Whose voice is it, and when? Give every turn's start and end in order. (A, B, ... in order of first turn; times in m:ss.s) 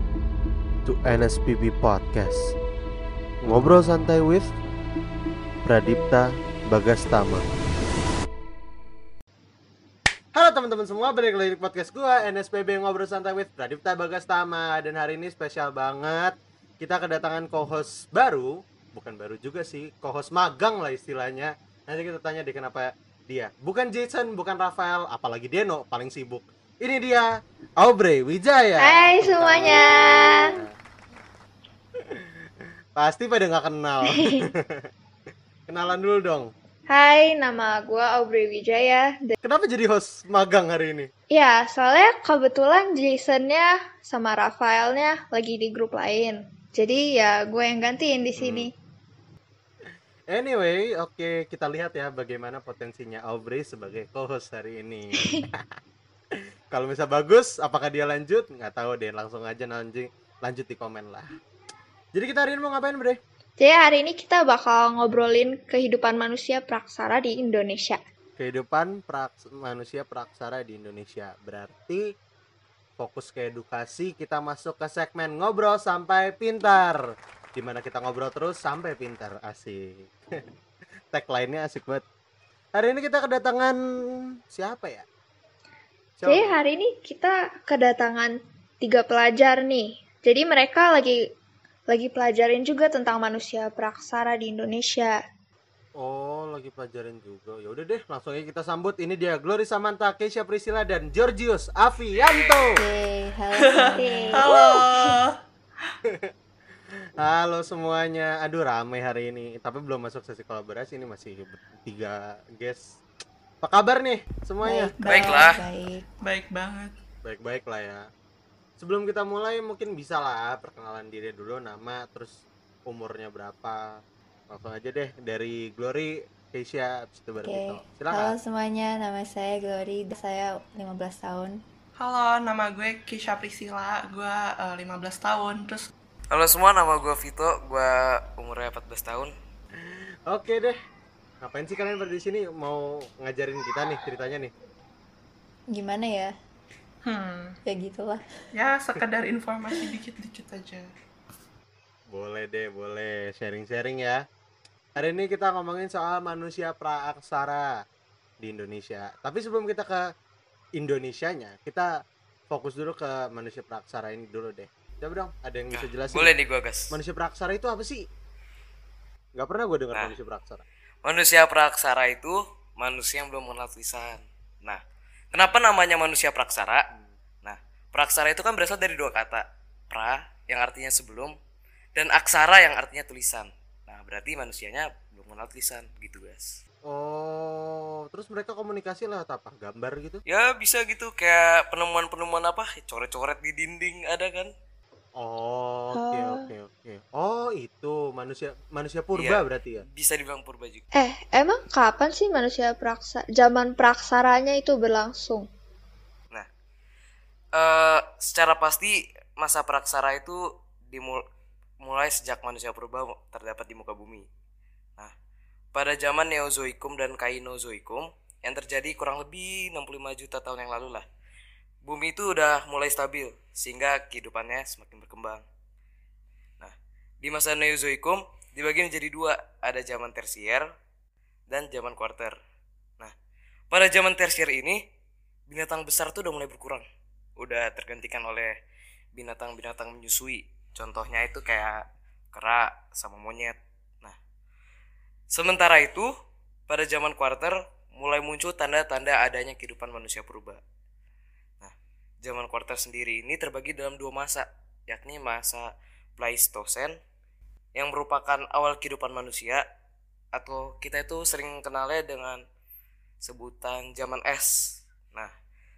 0:00.8-0:02.5 A
0:03.4-0:04.5 A
0:05.6-0:07.4 A
0:10.3-0:30.7 A
0:28.8-0:30.5 B
0:33.0-0:34.8 A
0:34.1-0:34.5 B
0:35.7-0:36.5 A
0:36.9-0:39.3 B
0:39.4-0:41.1 A
0:41.3-0:48.7 B
0:48.4-0:48.7 A
0:50.3-0:55.6 A
0:56.7-1:01.3 A
1:02.1-1:03.2 A
1:03.6-1:08.0 B
1:08.4-1:12.0 A
1:13.0-1:17.0 A
1:17.5-1:19.8 A
1:21.1-1:22.0 A
1:22.7-1:25.0 A
1:26.2-1:26.6 A
1:26.3-1:31.2 B
1:31.9-1:35.2 B
1:36.0-1:42.8 A
1:42.8-1:44.5 C
1:43.7-1:45.2 D
1:44.0-1:44.5 B
1:47.2-1:53.0 A
1:53.6-1:54.9 A
1:54.6-1:56.0 C
1:55.0-1:55.5 D
1:55.0-1:55.6 E
1:56.2-1:56.9 D
1:57.2-1:58.0 A
1:58.8-2:03.8 A
2:04.5-2:08.3 A
2:07.4-2:11.6 C
2:12.0-2:15.9 D
2:16.3-2:19.3 E
2:19.8-2:20.8 A
2:21.4-2:24.5 A
2:25.7-2:26.3 C
2:27.0-2:27.5 D
2:27.6-2:28.2 C
2:28.6-2:30.9 D
2:32.1-2:34.2 A
2:35.0-2:37.7 A
2:38.4-2:40.0 A
2:40.8-2:41.9 A
2:42.5-2:46.3 A
2:45.7-2:46.9 E
2:46.9-2:48.0 A
2:49.3-2:50.6 A
2:51.0-2:54.8 E
2:55.3-2:56.8 E
2:57.4-3:01.3 E
3:01.9-3:06.5 E
3:06.9-3:10.2 A
3:10.3-3:14.5 E
3:15.2-3:19.8 A
3:15.9-3:16.5 B
3:19.1-3:20.8 E
3:20.9-3:25.5 B
3:27.5-3:31.2 E
3:31.8-3:34.3 E
3:35.7-3:41.0 E
3:41.8-3:45.4 E
3:46.6-3:50.7 E
3:51.5-3:52.3 E
3:53.7-3:54.8 E
3:55.5-3:56.8 E
3:57.4-3:58.5 E
3:59.1-4:01.8 E
4:02.3-4:04.2 E
4:05.3-4:06.1 E
4:06.7-4:10.6 E
4:11.6-4:17.0 E
4:17.7-4:19.6 E
4:20.3-4:22.4 E
4:23.2-4:24.5 E